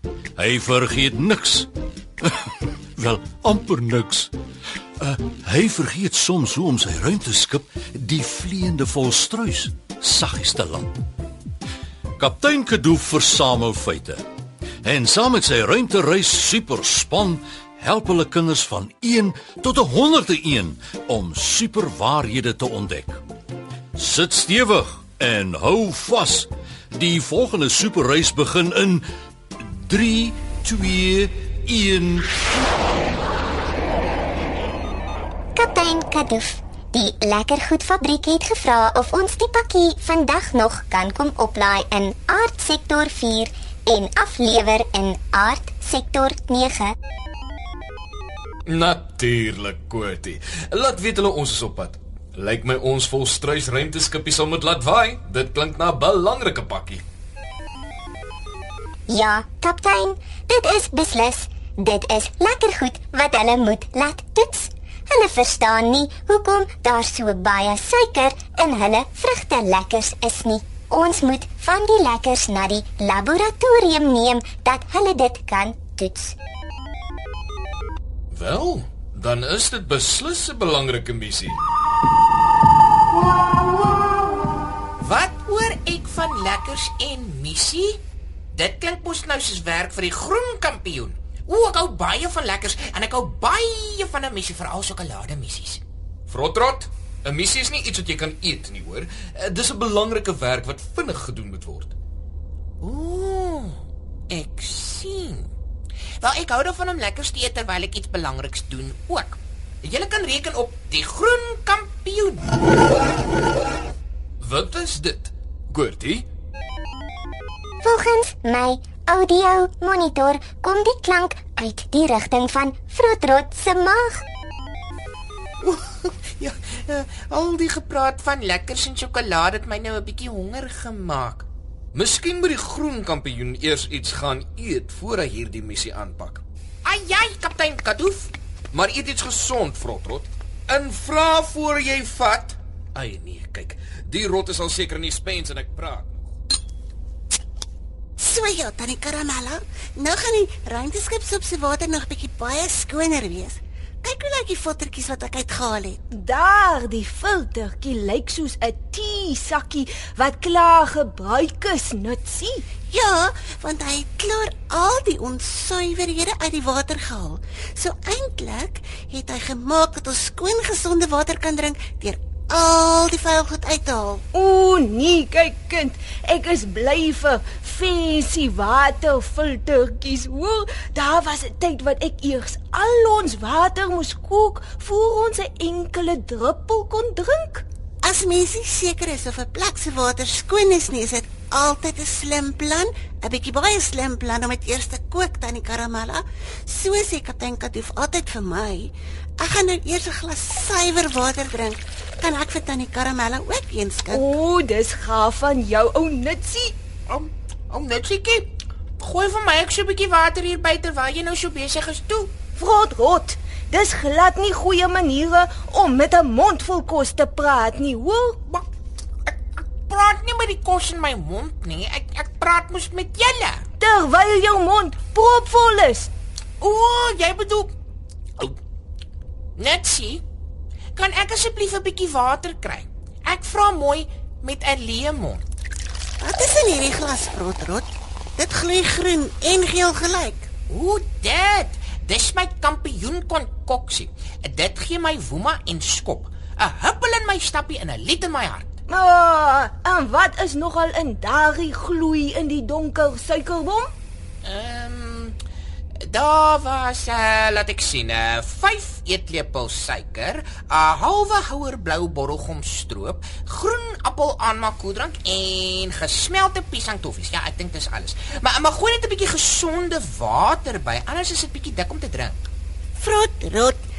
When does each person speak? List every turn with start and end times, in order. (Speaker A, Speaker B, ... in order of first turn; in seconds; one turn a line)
Speaker A: 0.4-1.7
Speaker A: 2.2-4.3
Speaker A: 5.0-11.0
Speaker A: 12.2-14.2
Speaker A: 14.8-23.2
Speaker A: 23.9-29.1
Speaker A: 29.6-32.4
Speaker B: 35.6-47.0
Speaker C: 48.7-57.0
Speaker B: 59.1-76.4
Speaker C: 78.3-81.6
Speaker D: 85.0-88.0
Speaker D: 88.6-95.8
Speaker C: 96.3-102.0
Speaker D: 102.8-103.8
Speaker D: 104.3-105.5
Speaker D: 106.2-112.5
Speaker C: 114.4-116.3
Speaker B: 117.8-124.2
Speaker D: 125.6-131.5
Speaker C: 131.9-136.4
Speaker D: 136.8-138.3
Speaker C: 138.7-146.3
Speaker E: 148.2-156.0
Speaker F: 156.1-162.7
Speaker E: 162.9-174.2
Speaker F: 174.3-187.6
Speaker E: 188.0-204.2
Speaker F: 204.1-206.8
Speaker D: 207.1-212.3
Speaker F: 212.6-218.6
Speaker D: 219.9-223.6
Speaker F: 223.8-226.1
Speaker D: 226.6-227.7
Speaker D: 229.6-230.2
Speaker D: 230.9-235.4
Speaker E: 236.2-240.5
Speaker D: 240.7-248.7
Speaker F: 248.9-253.9
Speaker D: 254.4-255.4
Speaker D: 256.0-272.4
Speaker E: 273.0-273.8